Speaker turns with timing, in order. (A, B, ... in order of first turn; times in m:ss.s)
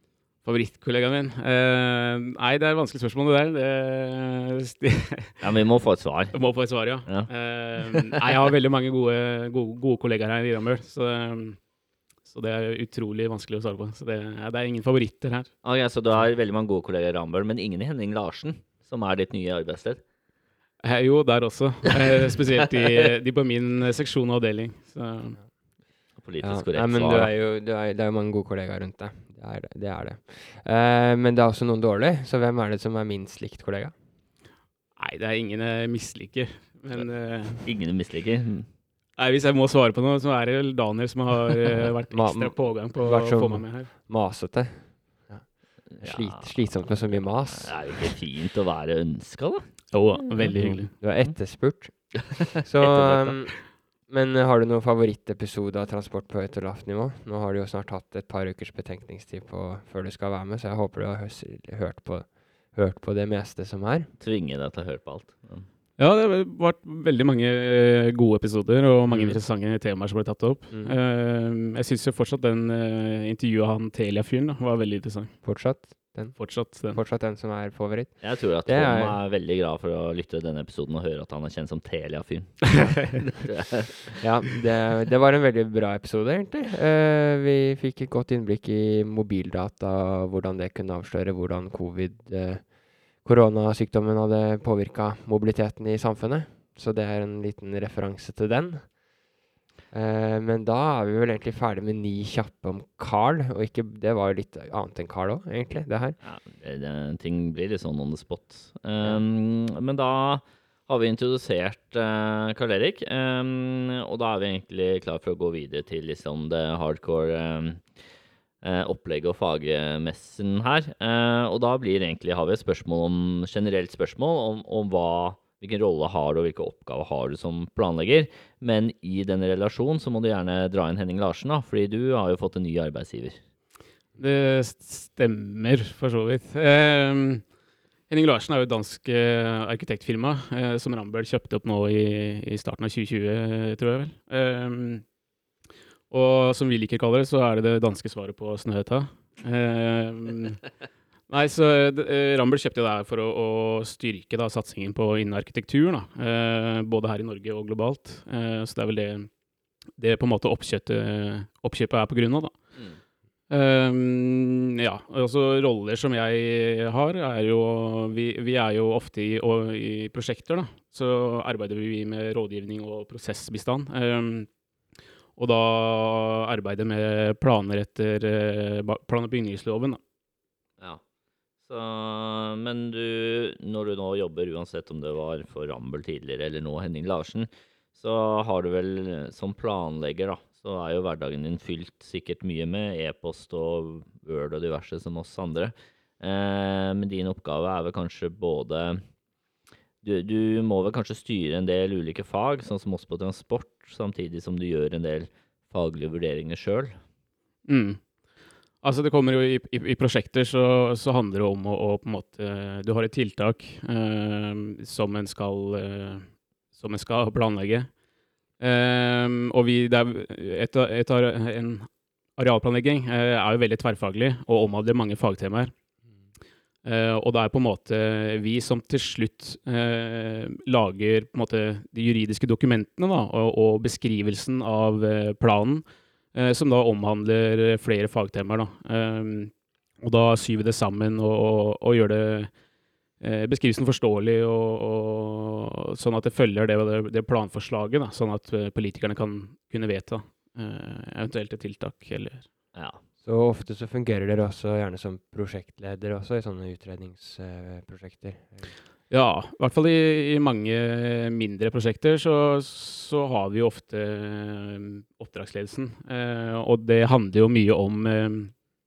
0:00.4-0:05.4 A
0:05.4-0:06.5 B
0:06.3-0:11.6 A
0:07.0-0:07.3 B
0:12.2-0:15.5 A
0:15.6-0:20.0 B
0:20.8-0:25.4 A
0:26.2-0:27.3 B
0:26.4-0:33.9 C
0:35.0-0:37.6 A
0:36.9-0:38.7 B
0:39.2-0:43.9 A
0:42.1-0:48.2 C
0:45.9-0:51.3 B
0:49.9-0:50.9 A
0:50.9-1:04.1 C
0:52.8-0:53.4 B
1:04.2-1:05.7 B
1:06.0-1:15.4 A
1:10.7-1:11.0 C
1:15.4-1:19.2 C
1:16.4-1:17.0 A
1:18.2-1:24.2 B
1:24.2-1:32.7 C
1:33.2-1:38.9 C
1:39.9-1:46.2 C
1:46.2-1:58.0 B
1:58.6-2:13.4 B
2:14.2-2:17.5 A
2:18.1-2:25.0 A
2:26.1-2:30.6 A
2:31.3-2:39.3 A
2:40.0-2:42.6 A
2:43.5-2:54.5 A
2:55.4-3:00.0 A
3:01.6-3:19.0 B
3:20.0-3:27.0 B
3:27.7-3:28.0 A
3:28.8-3:37.9 A
3:38.6-3:45.7 A
3:46.8-4:02.5 A
4:03.2-4:12.5 A
4:12.7-4:13.0 B
4:13.2-4:18.7 C
4:19.1-4:28.5 A